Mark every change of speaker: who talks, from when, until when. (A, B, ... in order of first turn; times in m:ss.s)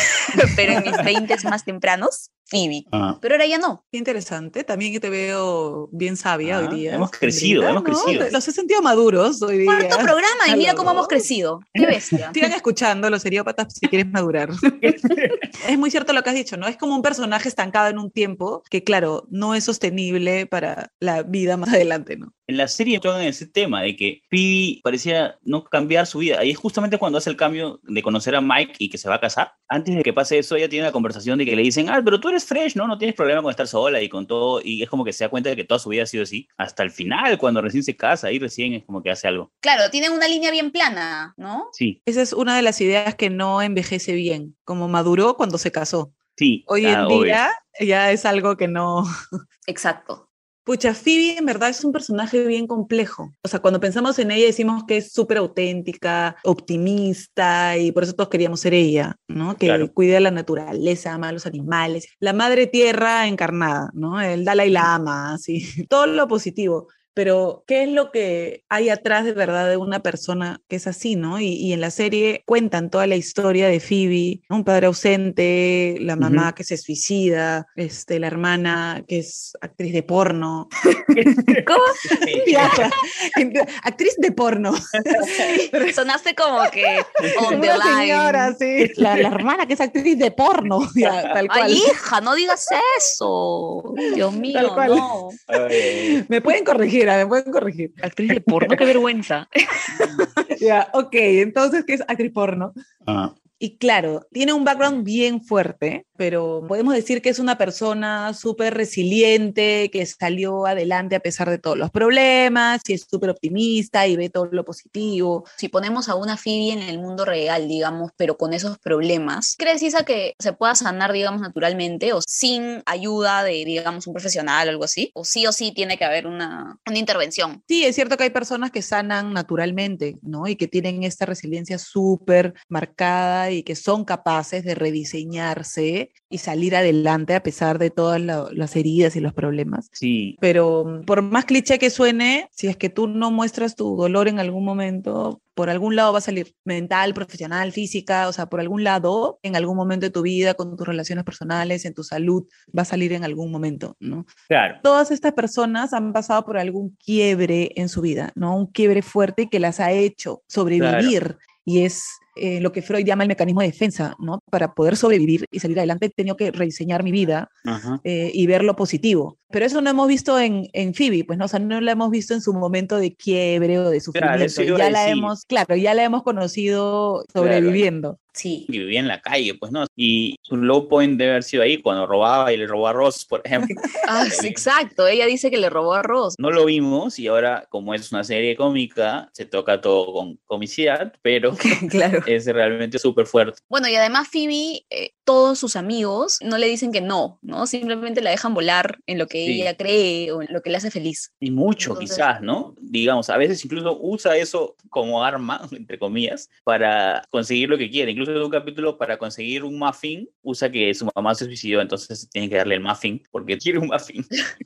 0:00.4-0:03.8 A
0:00.7-0:01.0 B
0:02.9-0:03.2 B
0:03.9-0:11.3 C
0:06.4-0:08.4 B
0:09.7-0:12.4 A
0:12.3-0:14.6 C
0:14.8-0:15.4 B
0:15.6-0:22.3 C
0:22.5-0:39.5 B
0:39.6-0:41.7 A
0:42.0-0:46.2 C
0:46.4-0:47.4 B
0:46.7-0:49.1 C
0:49.7-0:50.2 A
0:50.7-1:20.7 C
0:59.6-0:59.9 B
1:16.2-1:16.5 B
1:21.2-1:22.9 B
1:21.6-1:22.8 A
1:22.3-1:26.0 C
1:25.4-1:28.6 A
1:27.2-1:31.9 C
1:31.5-1:35.4 A
1:34.5-1:35.2 C
1:34.9-1:36.2 B
1:35.7-1:38.9 C
1:38.0-1:39.5 A
1:40.0-1:40.3 B
1:40.5-1:42.7 C
1:43.0-1:43.3 B
1:43.6-1:55.5 C
1:55.6-2:07.6 A
2:07.7-2:19.9 C
2:20.0-2:20.4 B
2:20.4-2:34.3 C
2:34.5-2:34.8 B
2:34.8-2:47.5 C
2:40.8-2:41.2 B
2:47.6-2:48.0 B
2:48.0-2:58.2 C
2:54.2-2:55.3 B
2:57.4-2:57.9 B
2:58.3-2:58.7 A
2:58.7-3:04.6 B
3:04.1-3:06.4 A
3:06.4-3:13.6 B
3:11.6-3:12.3 A
3:13.7-3:22.3 A
3:19.4-3:19.7 B
3:21.4-3:34.3 B